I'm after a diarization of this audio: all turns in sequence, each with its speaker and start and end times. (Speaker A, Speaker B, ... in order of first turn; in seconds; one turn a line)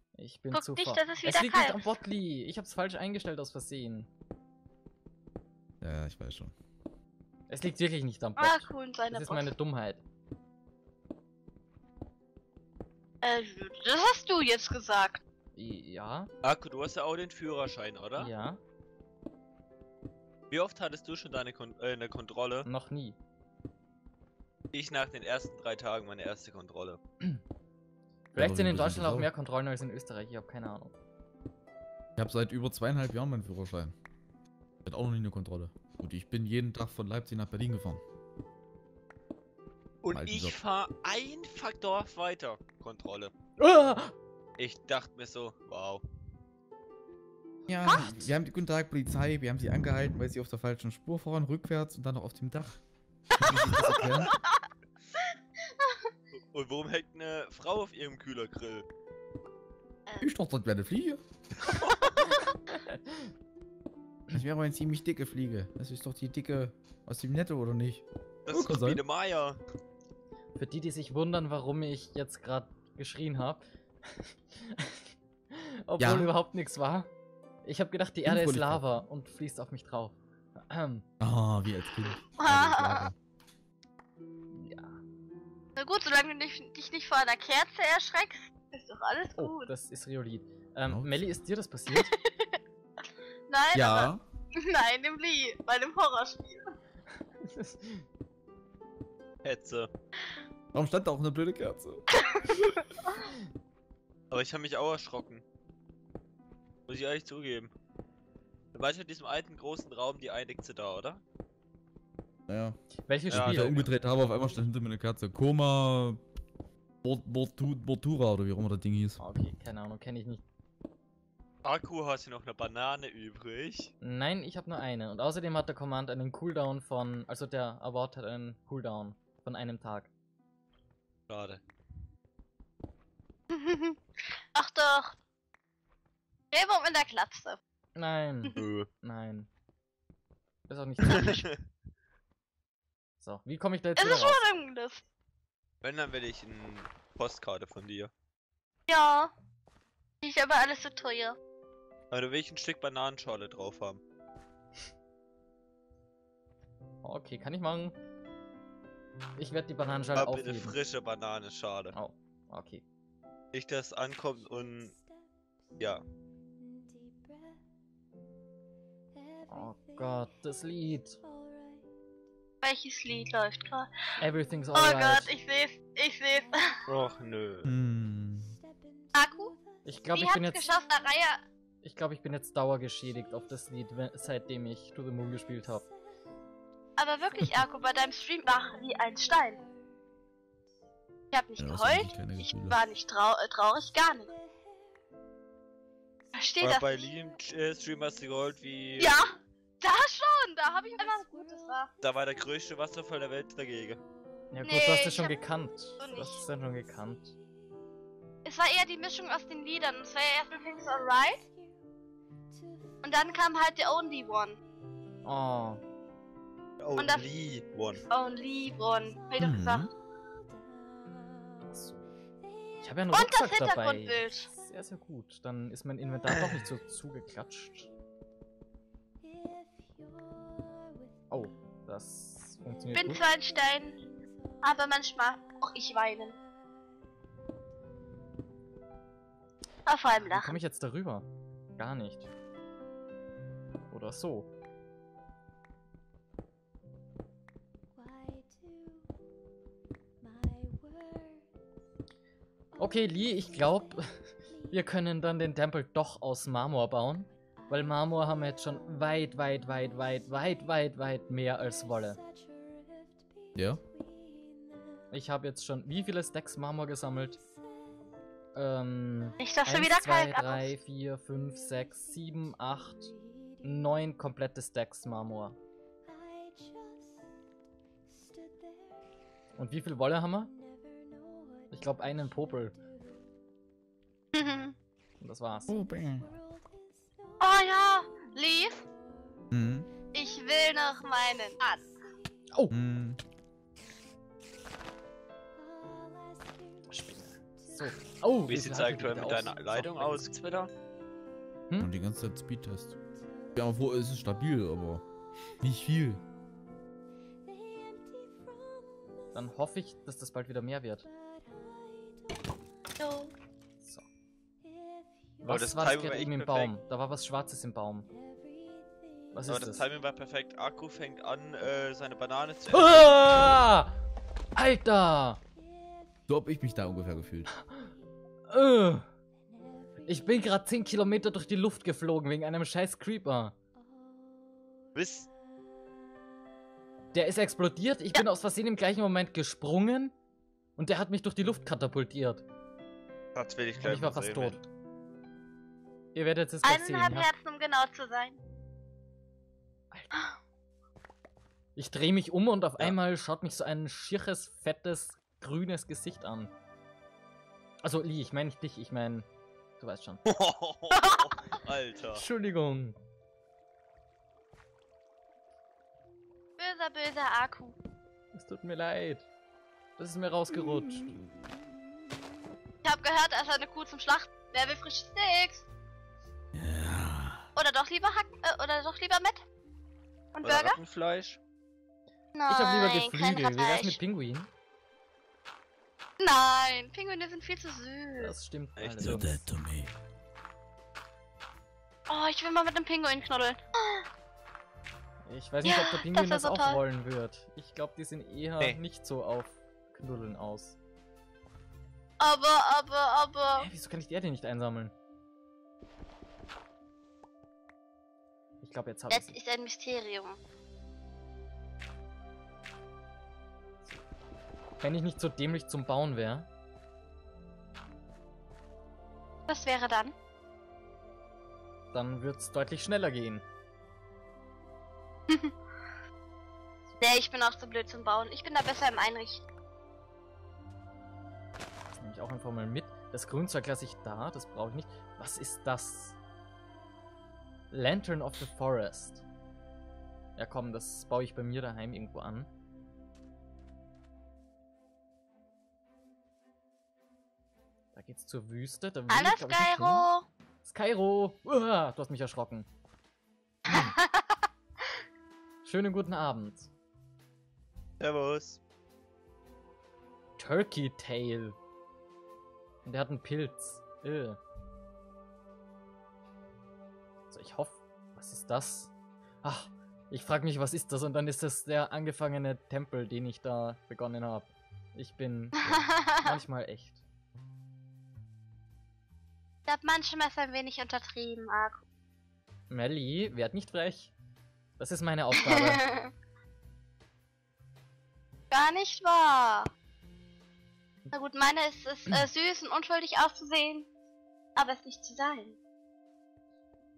Speaker A: 0.1-4.1
Speaker B: 0.5-1.9
Speaker C: 5.8-6.5
Speaker A: 7.5-10.0
Speaker B: 8.4-9.5
Speaker B: 13.2-15.2
Speaker A: 15.5-16.3
Speaker D: 16.4-18.3
Speaker A: 18.1-18.6
Speaker D: 20.5-22.7
Speaker A: 22.6-23.2
Speaker D: 24.7-27.0
Speaker A: 28.3-30.9
Speaker C: 28.4-29.3
Speaker C: 32.2-33.9
Speaker C: 34.8-38.0
Speaker D: 40.0-43.3
Speaker C: 40.1-40.6
Speaker A: 43.6-44.1
Speaker D: 44.6-46.0
Speaker C: 47.7-52.8
Speaker C: 53.4-54.3
Speaker D: 53.6-54.0
Speaker A: 53.7-54.1
Speaker B: 55.7-56.0
Speaker D: 56.5-58.9
Speaker C: 60.2-61.2
Speaker D: 61.7-62.1
Speaker B: 62.2-62.5
Speaker A: 62.8-63.3
Speaker C: 64.3-69.0
Speaker D: 68.5-69.6
Speaker A: 70.5-77.1
Speaker C: 76.0-76.3
Speaker A: 77.6-81.0
Speaker C: 78.2-78.8
Speaker C: 81.2-83.1
Speaker B: 82.4-83.1
Speaker A: 84.5-85.0
Speaker B: 85.8-89.7
Speaker A: 89.3-92.1
Speaker C: 90.8-91.4
Speaker B: 92.2-92.5
Speaker B: 93.5-96.7
Speaker C: 93.7-94.2
Speaker A: 97.4-98.0
Speaker D: 99.4-99.9
Speaker C: 100.7-102.0
Speaker B: 102.3-103.1
Speaker D: 104.3-105.4
Speaker D: 106.9-107.7
Speaker D: 108.7-111.2
Speaker C: 112.5-112.8
Speaker A: 113.1-113.8
Speaker C: 113.3-116.2
Speaker D: 113.3-113.8
Speaker C: 117.0-119.2
Speaker A: 119.2-120.4
Speaker D: 121.6-123.9
Speaker A: 124.0-130.1
Speaker D: 131.3-131.6
Speaker B: 133.5-134.0
Speaker B: 134.5-135.1
Speaker B: 136.5-137.6
Speaker A: 137.9-139.5
Speaker D: 138.5-138.9
Speaker A: 140.7-141.4
Speaker D: 141.1-141.4
Speaker A: 143.2-144.4
Speaker B: 144.0-145.0
Speaker D: 145.8-148.1
Speaker B: 148.9-149.3
Speaker B: 150.2-151.3
Speaker D: 152.1-154.0
Speaker A: 157.0-157.9
Speaker A: 159.4-160.8
Speaker D: 160.1-161.9
Speaker A: 161.9-162.8
Speaker D: 163.5-164.9
Speaker A: 169.5-171.2
Speaker B: 172.6-173.9
Speaker A: 174.2-175.3
Speaker B: 174.7-176.6
Speaker D: 176.9-177.7
Speaker C: 177.7-178.6
Speaker B: 179.1-179.6
Speaker A: 179.8-180.6
Speaker B: 180.1-181.4
Speaker A: 181.8-185.9
Speaker B: 187.0-189.7
Speaker B: 191.3-194.4
Speaker C: 191.6-192.8
Speaker B: 196.3-196.9
Speaker D: 196.6-199.1
Speaker B: 199.0-201.9
Speaker D: 202.0-204.0
Speaker A: 204.5-207.3
Speaker B: 204.6-205.3
Speaker B: 206.0-206.4
Speaker B: 208.4-211.4
Speaker B: 213.0-214.6
Speaker A: 215.2-215.8
Speaker D: 216.8-218.0
Speaker B: 217.0-217.2
Speaker B: 218.1-219.9
Speaker C: 219.4-219.9
Speaker A: 221.7-222.1
Speaker A: 222.8-227.9
Speaker B: 223.1-224.5
Speaker A: 231.3-233.2
Speaker B: 232.9-234.0
Speaker B: 234.6-236.4
Speaker B: 239.8-240.6
Speaker A: 240.2-242.3
Speaker A: 243.9-244.5
Speaker A: 252.8-262.2
Speaker C: 263.5-263.8
Speaker A: 265.1-267.4
Speaker A: 268.5-275.6
Speaker B: 269.4-270.7
Speaker A: 279.6-280.5
Speaker A: 281.7-282.8
Speaker B: 284.3-284.7
Speaker A: 285.2-285.7
Speaker C: 285.7-286.3
Speaker B: 287.4-288.9
Speaker C: 289.5-289.9
Speaker B: 290.1-291.9
Speaker C: 292.7-293.2
Speaker A: 296.9-300.3
Speaker D: 298.5-300.7
Speaker C: 301.8-303.0
Speaker C: 303.5-305.0
Speaker C: 305.6-306.2
Speaker A: 309.3-311.1
Speaker B: 313.0-313.3
Speaker A: 313.8-314.1
Speaker A: 315.4-318.1
Speaker D: 315.5-316.7
Speaker A: 319.3-319.9
Speaker D: 319.5-323.6
Speaker A: 322.7-323.9
Speaker A: 324.6-325.4
Speaker C: 326.3-327.5
Speaker A: 328.5-329.1
Speaker A: 330.0-333.5
Speaker D: 334.9-335.3
Speaker A: 337.1-340.1
Speaker A: 340.8-342.4
Speaker D: 343.3-344.6
Speaker A: 343.8-344.6
Speaker A: 346.1-347.3
Speaker B: 346.6-348.4
Speaker A: 351.8-356.5
Speaker A: 357.8-359.3
Speaker A: 359.8-360.2
Speaker D: 360.2-362.2
Speaker B: 360.9-361.3
Speaker A: 362.1-362.9
Speaker B: 366.6-367.8
Speaker A: 368.3-369.3
Speaker A: 370.0-371.1
Speaker B: 372.8-375.6
Speaker C: 376.5-377.4
Speaker B: 377.6-379.4
Speaker B: 380.3-380.8
Speaker D: 380.4-381.4
Speaker B: 382.4-384.0
Speaker A: 382.5-384.5
Speaker B: 386.2-388.3
Speaker A: 388.2-389.4
Speaker D: 388.8-389.2
Speaker C: 389.0-389.9
Speaker B: 392.1-394.0
Speaker A: 395.2-400.8
Speaker B: 395.6-396.8
Speaker B: 402.2-403.7
Speaker A: 403.6-404.9
Speaker A: 408.6-409.4
Speaker B: 409.1-410.4
Speaker A: 414.8-416.5
Speaker B: 419.5-420.1
Speaker A: 421.9-423.4
Speaker B: 427.0-429.4
Speaker A: 431.9-436.2
Speaker A: 437.7-439.2
Speaker A: 440.4-442.5
Speaker A: 447.9-450.1
Speaker B: 449.1-450.2
Speaker A: 450.6-452.7
Speaker A: 453.6-453.9
Speaker B: 453.7-454.4
Speaker A: 455.6-456.7
Speaker D: 458.0-458.6
Speaker A: 460.4-461.6
Speaker A: 462.8-464.4
Speaker A: 467.3-477.0
Speaker B: 475.6-476.4
Speaker B: 479.7-481.8
Speaker A: 482.7-484.1
Speaker A: 484.8-485.9
Speaker B: 485.5-486.1
Speaker B: 488.5-489.7
Speaker B: 491.1-493.9
Speaker B: 494.6-495.6